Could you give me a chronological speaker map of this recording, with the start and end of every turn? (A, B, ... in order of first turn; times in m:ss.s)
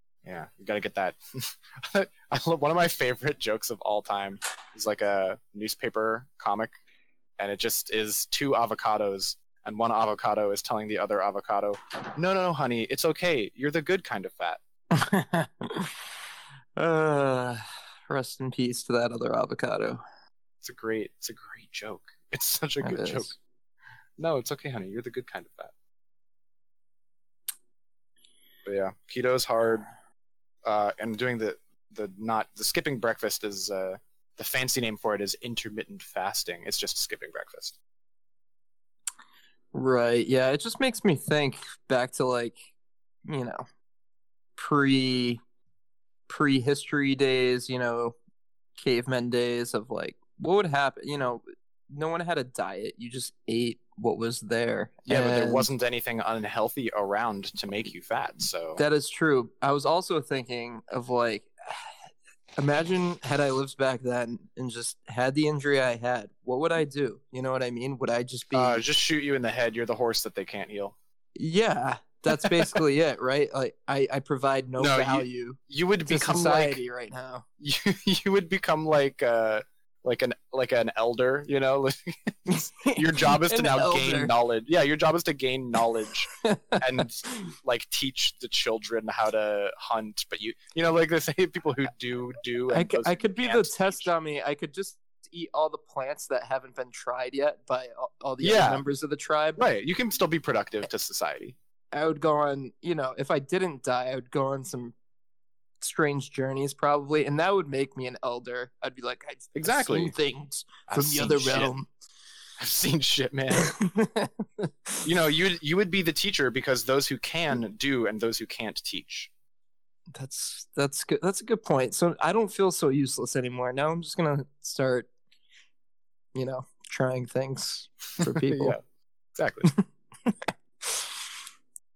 0:00.2-0:06.7 A
0:07.4-0:14.6 A
0:14.9-0:16.1 B
0:16.8-0:20.0 B
0:20.6-0:23.3 A
0:22.8-0:23.4 B
0:24.2-0:25.7 A
0:28.6-0:29.9 A
0:30.6-0:37.8 A
0:39.7-0:42.6 B
0:43.2-0:43.6 B
0:44.6-0:45.4 B
0:46.3-0:48.2 B
0:48.8-0:55.7 B
0:55.1-0:58.8 A
0:58.8-1:02.0 B
1:02.6-1:08.8 B
1:08.5-1:11.0 A
1:11.4-1:17.4 B
1:14.8-1:16.8 A
1:17.6-1:34.1 A
1:22.5-1:24.3 B
1:26.4-1:27.3 B
1:32.7-1:39.6 B
1:38.4-1:38.8 A
1:39.6-1:41.6 A
1:41.9-1:44.9 B
1:45.8-1:51.9 B
1:49.5-1:50.1 A
1:50.9-1:51.7 A
1:52.6-1:53.8 A
1:53.6-1:55.0 B
1:55.0-1:59.3 A
2:00.1-2:05.1 B
2:06.3-2:08.8 B
2:08.2-2:08.8 A
2:09.4-2:09.7 A
2:10.2-2:11.1 B